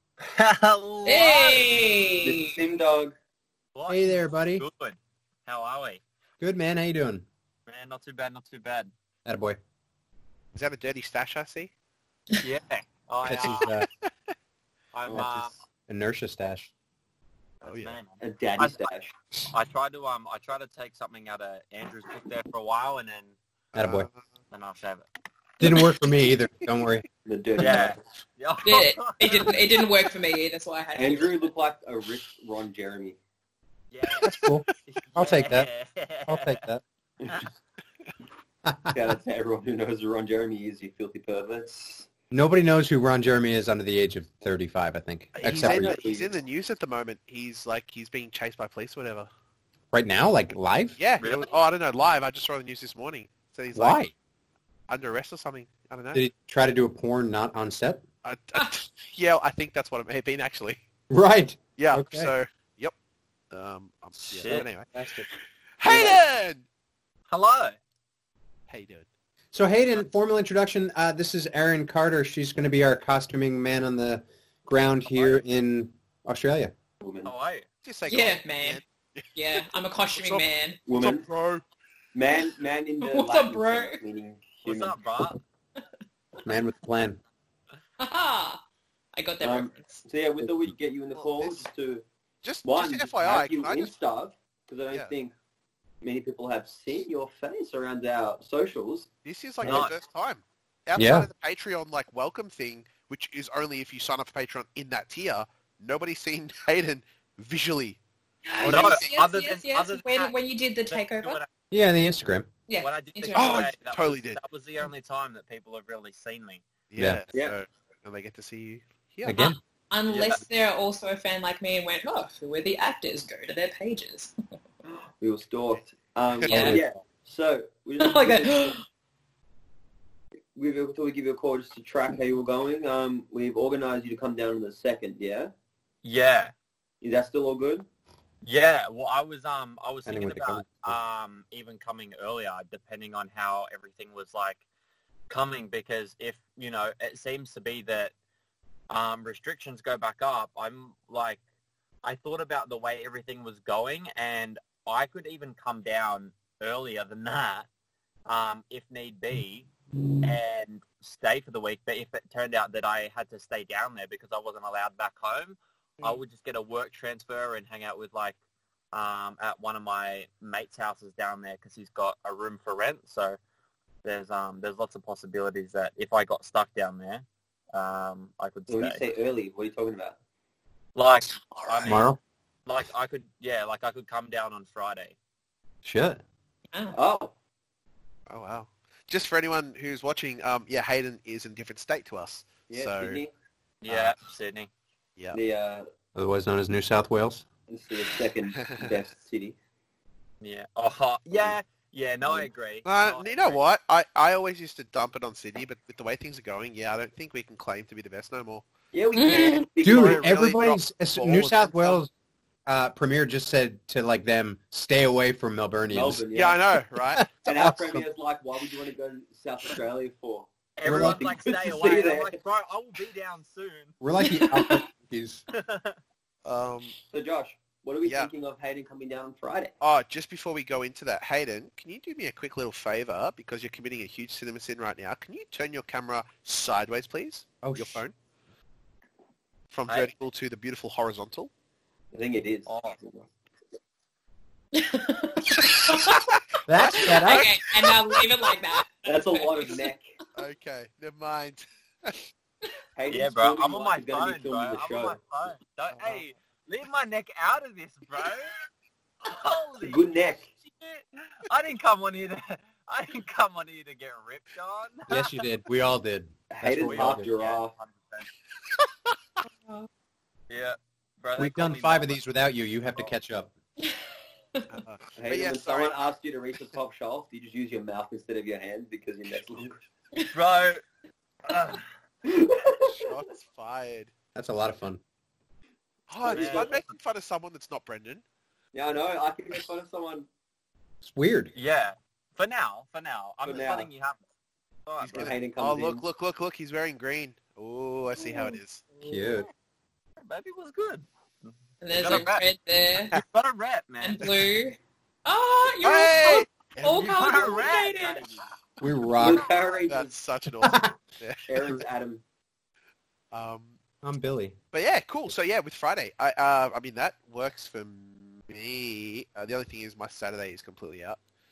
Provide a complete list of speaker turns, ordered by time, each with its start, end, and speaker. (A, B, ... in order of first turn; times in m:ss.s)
0:00.2-0:01.8 A
0:01.1-0:02.5 B
0:02.2-0:03.2 C
0:03.8-0:06.0 A
0:03.9-0:04.7 D
0:06.4-0:07.3 D
0:07.7-0:08.9 A
0:09.2-0:09.6 D
0:10.5-0:11.7 E
0:12.4-0:13.7 A
0:13.2-0:13.9 D
0:13.4-0:14.1 E
0:14.9-0:15.6 A
0:15.2-0:16.7 D
0:17.6-0:18.9 A
0:17.6-0:18.0 E
0:18.2-0:19.1 C
0:19.5-0:23.3 A
0:23.8-0:24.1 D
0:23.8-0:24.2 E
0:24.5-0:25.0 A
0:25.6-0:27.1 D
0:27.3-0:28.0 C
0:27.6-0:29.7 A
0:28.6-0:31.5 B
0:31.0-0:33.2 C
0:33.9-0:36.6 A
0:34.2-0:34.5 E
0:34.2-0:35.7 D
0:36.3-0:36.8 D
0:38.9-0:42.1 C
0:42.3-0:46.0 D
0:45.3-0:49.3 E
0:45.4-0:46.3 C
0:49.9-0:51.0 D
0:51.0-0:54.0 E
0:51.2-0:51.5 A
0:53.7-0:54.1 D
0:54.9-0:56.2 E
0:56.1-0:58.0 D
0:58.2-1:00.8 E
1:01.1-1:02.3 D
1:01.8-1:02.9 E
1:03.5-1:04.9 E
1:04.2-1:04.7 A
1:04.5-1:05.3 D
1:05.8-1:06.6 E
1:05.9-1:06.2 D
1:07.3-1:07.8 A
1:08.7-1:09.1 E
1:09.5-1:16.7 D
1:17.0-1:17.3 C
1:17.2-1:17.7 A
1:17.8-1:19.3 E
1:18.1-1:18.8 B
1:19.4-1:20.8 B
1:20.1-1:21.6 E
1:20.9-1:21.2 C
1:22.2-1:25.0 C
1:23.0-1:24.0 B
1:24.6-1:25.4 A
1:26.4-1:27.2 D
1:28.0-1:28.6 B
1:29.2-1:30.0 B
1:29.4-1:32.0 C
1:31.2-1:31.7 E
1:32.4-1:34.0 E
1:32.6-1:35.3 C
1:36.0-1:39.1 C
1:39.2-1:48.0 E
1:39.6-1:39.9 A
1:41.0-1:41.3 D
1:48.5-1:51.4 B
1:48.6-1:49.1 E
1:48.6-1:50.3 A
1:50.9-1:51.5 A
1:51.7-1:52.5 D
1:52.7-1:53.6 B
1:52.8-1:56.7 A
1:53.3-1:54.4 E
1:56.9-1:59.4 E
1:59.2-1:59.6 D
1:59.4-2:04.3 B
2:04.8-2:08.8 C
2:06.5-2:06.8 B
2:06.5-2:06.9 D
2:08.0-2:08.8 B
2:10.5-2:15.5 C
2:16.0-2:16.5 A
2:17.0-2:17.9 C
2:18.4-2:24.6 A
2:20.1-2:21.0 D
2:25.3-2:28.1 A
2:28.9-2:31.4 A
2:32.0-2:37.7 A
2:38.3-2:39.7 A
2:40.2-2:48.4 A
2:48.9-2:53.4 A
2:54.0-2:59.0 A
2:58.7-3:00.2 C
3:01.0-3:02.0 A
3:01.8-3:02.2 D
3:02.7-3:05.2 A
3:05.8-3:06.2 D
3:06.7-3:07.0 B
3:07.0-3:07.3 C
3:08.3-3:13.2 E
3:12.7-3:13.3 C
3:13.8-3:14.7 A
3:15.3-3:15.9 C
3:16.2-3:17.4 D
3:17.7-3:19.6 C
3:20.4-3:23.6 A
3:22.8-3:28.7 E
3:28.9-3:30.5 C
3:29.2-3:29.7 B
3:29.8-3:32.1 D
3:29.8-3:32.0 E
3:32.7-3:36.2 D
3:35.9-3:36.6 C
3:36.3-3:37.2 E
3:37.1-3:38.1 D
3:37.4-3:42.4 C
3:40.8-3:43.9 A
3:40.8-3:41.2 D
3:44.0-3:45.4 D
3:44.2-3:44.8 B
3:45.5-3:46.0 A
3:46.4-3:47.0 E
3:47.1-3:49.7 C
3:48.0-3:48.3 E
3:49.8-3:58.1 E
3:57.6-3:58.0 D
3:59.7-4:01.5 E
4:02.1-4:03.3 C
4:02.7-4:03.0 A
4:04.7-4:06.2 B
4:05.9-4:06.4 E
4:06.7-4:07.5 D
4:06.9-4:07.4 E
4:06.9-4:09.9 B
4:09.1-4:10.1 C
4:10.4-4:12.2 E
4:13.0-4:15.2 C
4:13.1-4:18.5 A
4:15.9-4:16.2 E
4:19.2-4:20.1 A
4:19.8-4:20.5 C
4:20.6-4:25.4 A
4:25.1-4:27.3 D
4:26.5-4:27.7 C
4:26.8-4:28.3 A
4:30.5-4:32.2 A
4:31.4-4:33.5 D
4:34.7-4:36.0 E
4:35.2-4:39.8 C
4:40.3-4:40.8 A
4:41.5-4:41.9 A
4:42.2-4:43.2 C
4:42.9-4:44.1 E
4:44.4-4:45.0 D
4:46.1-4:48.2 E
4:46.2-4:46.7 C
4:46.3-4:47.0 A
4:48.7-4:50.3 C
4:51.0-4:51.5 D
4:51.5-4:54.2 A
4:53.4-4:53.9 C
4:54.9-4:55.3 A
4:55.0-4:58.8 E
4:55.1-4:56.0 C
4:59.0-4:59.4 A
4:59.0-4:59.5 D
5:00.2-5:02.4 A
5:01.8-5:03.2 B
5:03.1-5:04.3 A
5:04.0-5:08.2 B
5:05.8-5:07.6 E
5:06.9-5:08.4 A
5:08.8-5:09.4 D
5:09.2-5:10.1 C
5:09.9-5:11.8 E
5:10.6-5:11.0 D
5:11.5-5:12.2 C
5:13.3-5:13.8 E
5:14.0-5:14.6 D
5:14.7-5:21.2 E